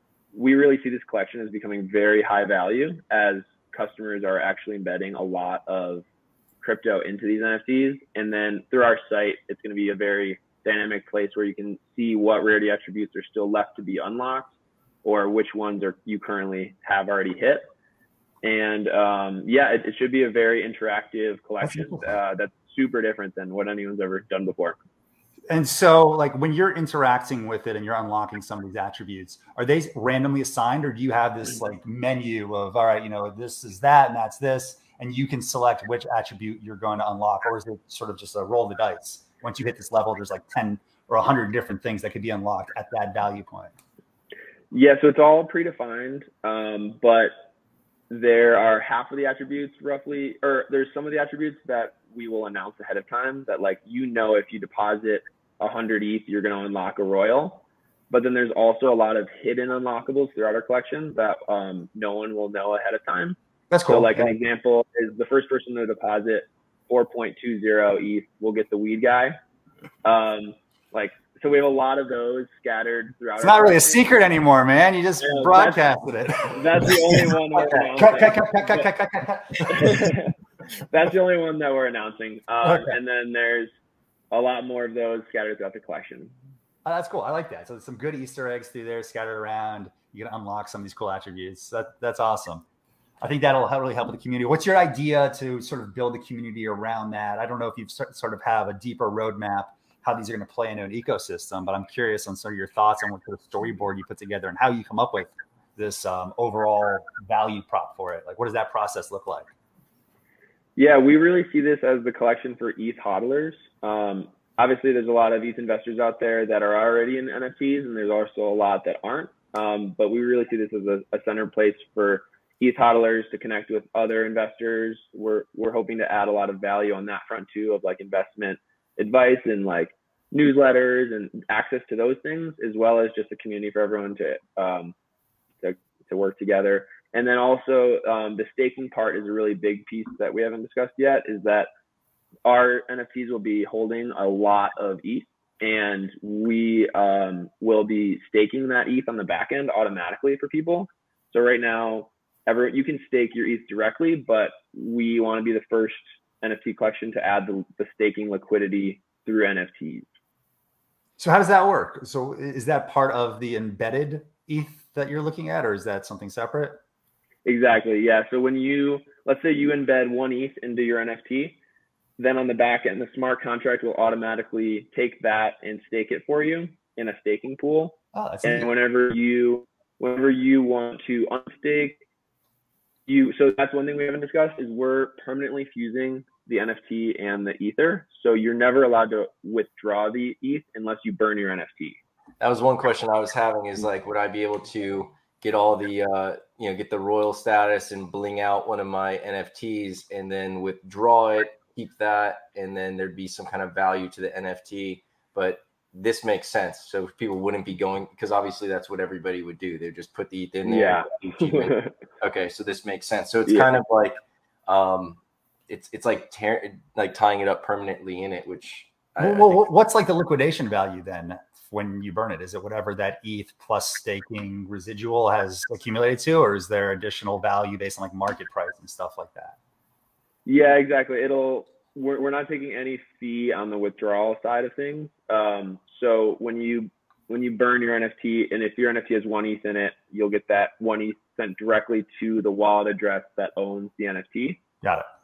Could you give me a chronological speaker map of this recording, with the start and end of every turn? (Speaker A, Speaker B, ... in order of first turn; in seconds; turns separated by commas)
Speaker A: 0.3-6.0, Speaker A: 6.6-14.5, Speaker A: 15.0-17.6, Speaker A: 18.4-24.8, Speaker B: 21.6-22.1, Speaker B: 25.5-43.7, Speaker A: 44.7-47.3, Speaker A: 48.1-63.4, Speaker B: 63.7-64.4, Speaker A: 63.9-69.3, Speaker A: 70.0-74.1, Speaker B: 73.4-76.9, Speaker A: 75.2-78.9, Speaker B: 77.6-80.2, Speaker A: 79.6-80.3, Speaker A: 80.9-83.7, Speaker B: 82.6-83.0, Speaker A: 84.3-86.3, Speaker B: 86.8-92.6, Speaker B: 93.2-109.5, Speaker A: 110.8-134.9, Speaker A: 135.6-141.7, Speaker A: 142.4-160.1, Speaker B: 161.2-166.8, Speaker A: 167.4-171.6, Speaker A: 172.2-182.0, Speaker B: 178.1-178.7, Speaker A: 183.1-192.0, Speaker C: 192.4-219.6, Speaker A: 210.6-211.9, Speaker B: 219.2-229.6, Speaker A: 230.4-244.6